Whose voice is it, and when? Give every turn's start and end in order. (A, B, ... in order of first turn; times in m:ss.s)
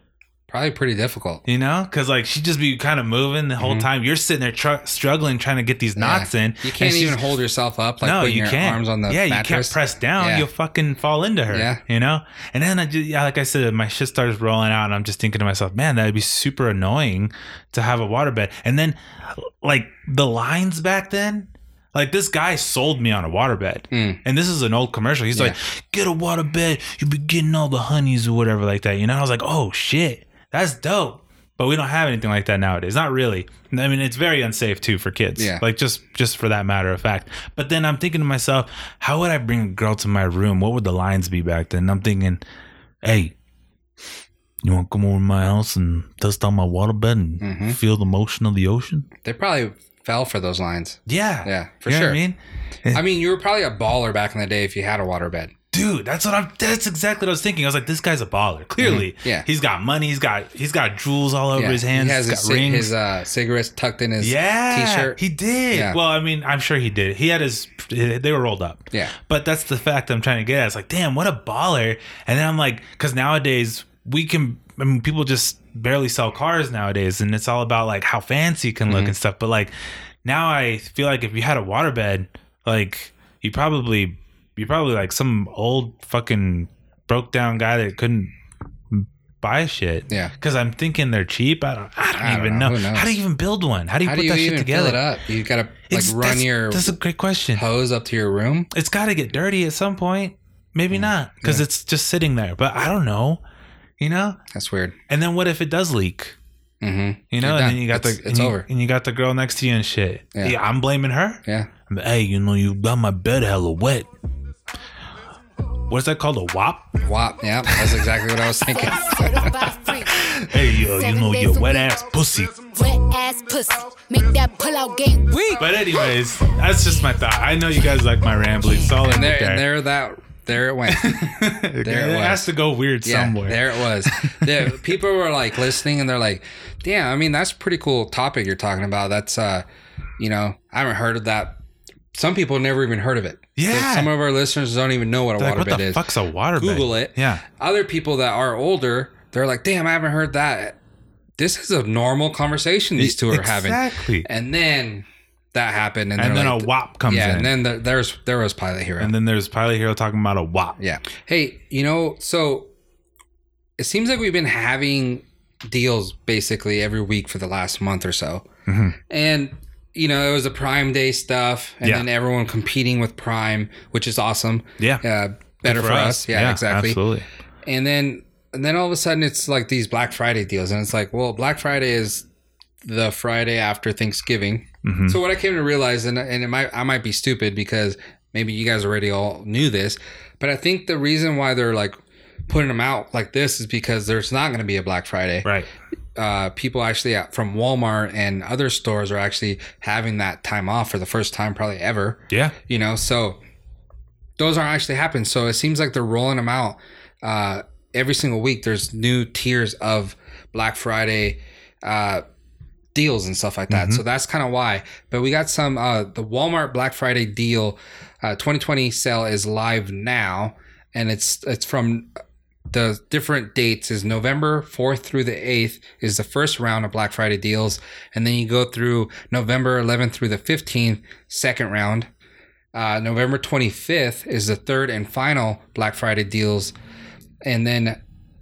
0:00.5-0:01.4 A
0:01.4-0:07.2 B
0:03.6-0:03.9 A
0:06.0-0:10.5 A
0:08.0-0:42.4 B
0:11.5-0:11.8 A
0:23.9-0:24.2 A
0:35.4-0:35.6 A
0:43.0-0:43.3 B
0:44.6-0:49.1 B
0:47.4-0:47.8 A
0:49.2-0:52.2 A
0:51.1-0:53.0 B
0:52.9-0:55.5 A
0:55.7-1:02.9 B
0:58.8-0:59.4 A
1:01.5-1:05.2 A
1:04.2-1:19.7 B
1:05.7-1:06.0 A
1:18.9-1:19.2 A
1:20.2-1:28.3 B
1:28.9-1:35.0 B
1:32.1-1:33.1 A
1:34.0-1:37.0 A
1:35.9-1:37.6 B
1:37.5-1:38.7 A
1:38.7-1:43.4 B
1:40.9-1:41.6 A
1:44.0-1:44.4 B
1:44.5-1:45.0 A
1:45.1-1:46.4 B
1:46.8-1:48.7 A
1:47.3-1:54.1 B
1:51.4-1:51.7 A
1:55.9-1:57.0 B
1:57.0-1:59.6 A
1:57.7-1:58.0 B
1:58.7-2:02.0 C
2:00.1-2:02.5 B
2:02.6-2:05.7 C
2:05.6-2:09.7 B
2:08.6-2:09.2 C
2:09.1-2:11.2 A
2:10.9-2:14.9 B
2:11.8-2:12.5 A
2:13.0-2:19.6 A
2:20.2-2:21.6 A
2:22.1-2:26.0 A
2:23.6-2:24.1 B
2:25.4-2:27.4 B
2:26.6-2:30.8 A
2:31.4-2:39.1 A
2:33.0-2:34.3 B
2:36.2-2:37.5 B
2:39.0-2:40.8 B
2:40.8-2:42.7 A
2:43.8-2:48.4 A
2:48.7-2:49.0 B
2:49.1-2:57.0 A
2:54.8-2:55.0 B
2:55.6-2:57.2 B
2:57.6-3:02.2 A
3:02.8-3:12.0 A
3:04.8-3:05.2 B
3:12.5-3:15.5 A
3:16.2-3:23.4 A
3:22.3-3:22.5 B
3:24.4-3:32.2 A
3:32.9-3:42.1 A
3:33.7-3:34.0 B
3:42.7-3:52.1 A
3:52.7-3:56.7 A
3:57.4-3:58.0 A